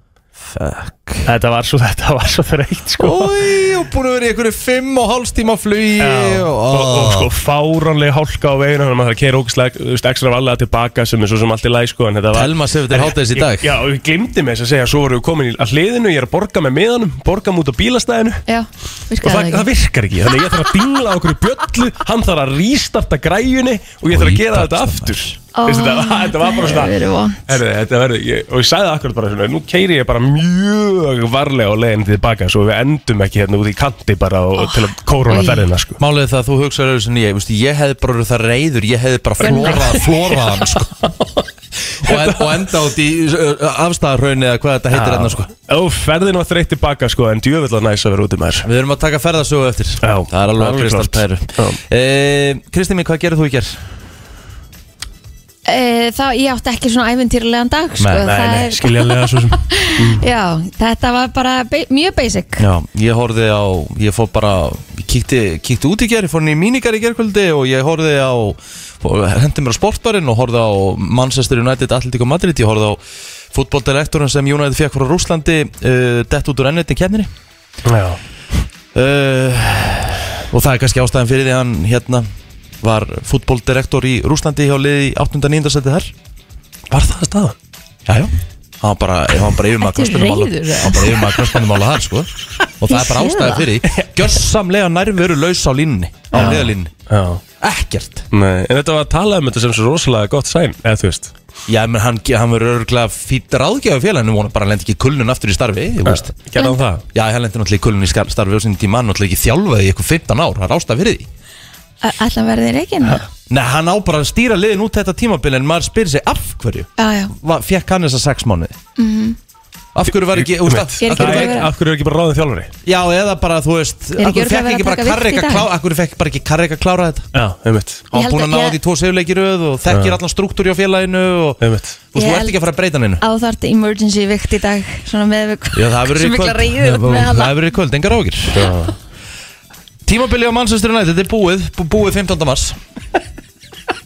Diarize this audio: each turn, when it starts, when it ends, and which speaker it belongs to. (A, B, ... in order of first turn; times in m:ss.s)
0:00.4-0:01.3 A
0:01.2-0:03.4 B
0:03.0-0:07.3 A
0:06.0-0:18.4 B
0:12.3-0:13.7 A
0:18.5-0:19.7 C
0:19.2-0:26.9 B
0:24.1-0:25.3 A
0:25.6-0:27.5 C
0:27.5-0:36.0 B
0:34.6-0:35.6 C
0:36.0-0:41.0 A
0:39.4-0:40.0 C
0:39.4-0:40.1 B
0:41.0-0:41.4 B
0:42.0-0:42.7 B
0:42.0-0:45.5 A
0:44.9-0:48.7 B
0:48.6-0:53.8 A
0:50.0-0:51.8 B
0:55.7-1:02.6 C
0:58.0-0:58.6 A
0:58.3-1:00.2 B
1:02.6-1:13.0 A
1:13.5-1:17.3 A
1:17.8-1:18.2 B
1:18.9-1:22.3 A
1:22.8-1:26.1 A
1:26.9-1:27.6 B
1:28.1-1:36.9 A
1:29.8-1:31.6 C
1:32.9-1:33.7 C
1:36.3-1:37.4 B
1:37.6-1:38.3 A
1:38.3-1:41.3 B
1:41.7-1:46.3 A
1:46.0-1:47.0 B
1:46.6-1:46.8 C
1:47.1-1:51.3 A
1:52.0-1:53.2 C
1:53.5-1:58.8 A
1:57.0-1:57.3 C
1:59.0-1:59.4 C
2:00.0-2:01.6 A
2:00.1-2:02.7 B
2:01.0-2:01.7 C
2:02.8-2:07.3 A
2:04.2-2:05.7 C
2:07.3-2:08.0 B
2:08.1-2:13.2 A
2:08.1-2:08.8 C
2:09.9-2:10.2 B
2:11.6-2:12.0 B
2:12.2-2:12.6 C
2:13.2-2:17.6 C
2:15.7-2:18.8 A
2:18.5-2:18.9 B
2:20.1-2:22.8 A